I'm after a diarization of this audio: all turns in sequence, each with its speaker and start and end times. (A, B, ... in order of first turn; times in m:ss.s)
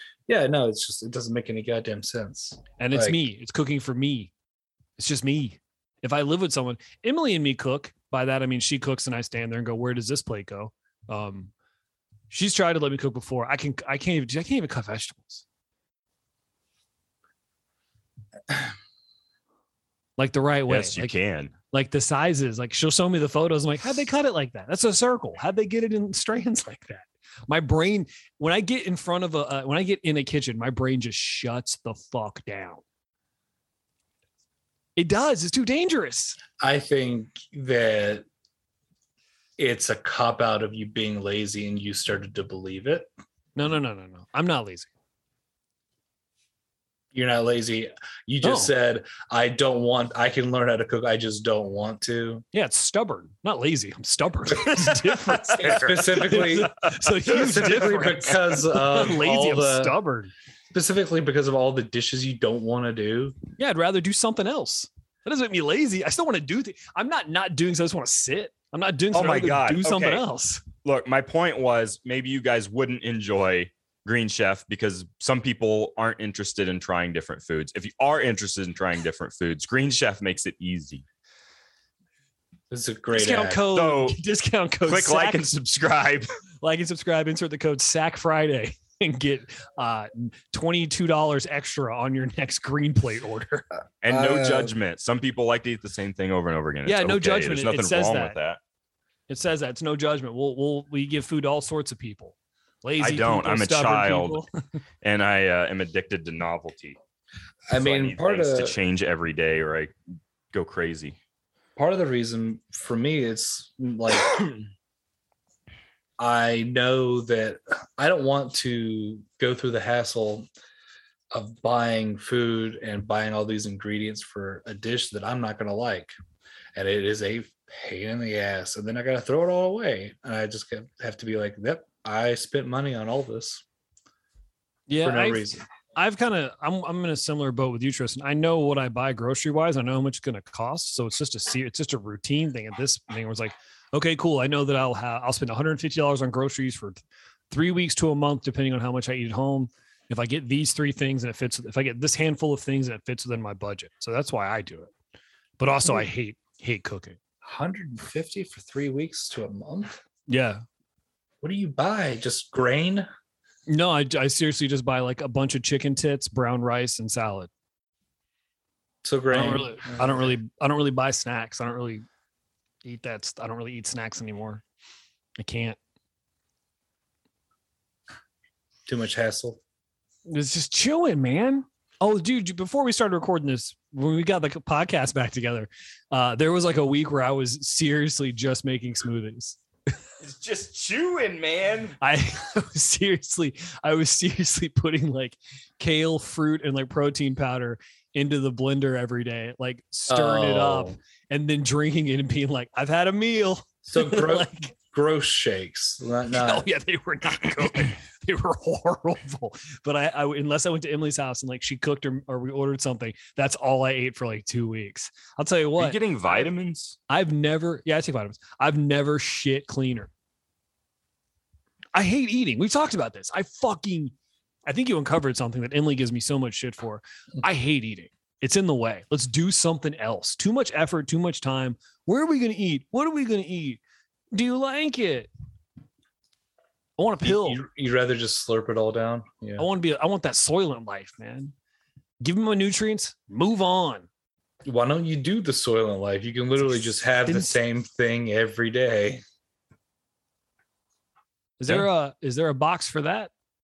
0:00.3-0:03.2 A
0:02.8-0:04.3 B
0:05.0-0:11.5 B
0:12.3-0:15.4 B
0:20.2-0:21.1 B
0:20.7-0:21.5 C
0:21.7-0:32.8 B
0:35.0-0:36.4 B
0:36.6-0:38.2 A
0:39.6-0:43.1 A
0:43.6-0:44.9 B
0:47.1-0:52.4 A
0:48.4-0:48.7 B
0:52.5-1:00.3 B
0:55.6-0:56.7 A
0:57.3-1:00.0 A
1:00.7-1:03.4 A
1:03.6-1:10.6 B
1:09.1-1:10.2 C
1:10.8-1:21.0 C
1:22.7-1:23.6 A
1:23.1-1:25.5 B
1:23.7-1:24.2 C
1:24.9-1:26.3 C
1:26.6-1:33.7 B
1:34.0-1:38.6 C
1:34.1-1:34.7 A
1:36.9-1:38.4 B
1:39.3-1:44.6 B
1:43.0-1:44.4 C
1:45.0-1:47.0 C
1:47.7-1:48.8 A
1:47.7-1:49.9 C
1:50.5-1:51.2 C
1:51.8-1:54.7 A
1:56.2-2:00.5 A
2:01.3-2:06.1 A
2:06.8-2:13.6 A
2:14.9-2:34.9 B
2:15.0-2:15.6 A
2:35.6-2:37.2 B
2:37.4-2:40.0 A
2:40.3-2:40.6 B
2:41.4-2:43.1 A
2:43.7-2:47.5 B
2:49.0-2:50.3 A
2:49.3-2:52.0 B
2:52.8-2:54.6 B
2:55.4-2:55.8 B
2:58.9-2:59.6 A
3:00.3-3:09.6 B
3:10.2-3:12.0 C
3:12.0-3:24.7 B
3:20.1-3:21.0 A
3:23.9-3:26.7 A
3:26.3-3:36.0 B
3:35.8-3:37.0 C
3:37.1-3:40.1 B
3:42.0-3:44.1 B
3:44.7-3:53.8 B
3:54.3-3:55.3 B
3:57.0-3:57.6 B
3:57.2-3:59.7 A
3:59.6-4:01.5 B
4:02.2-4:04.1 B
4:04.6-4:09.2 A
4:06.7-4:07.6 B
4:11.6-4:13.3 B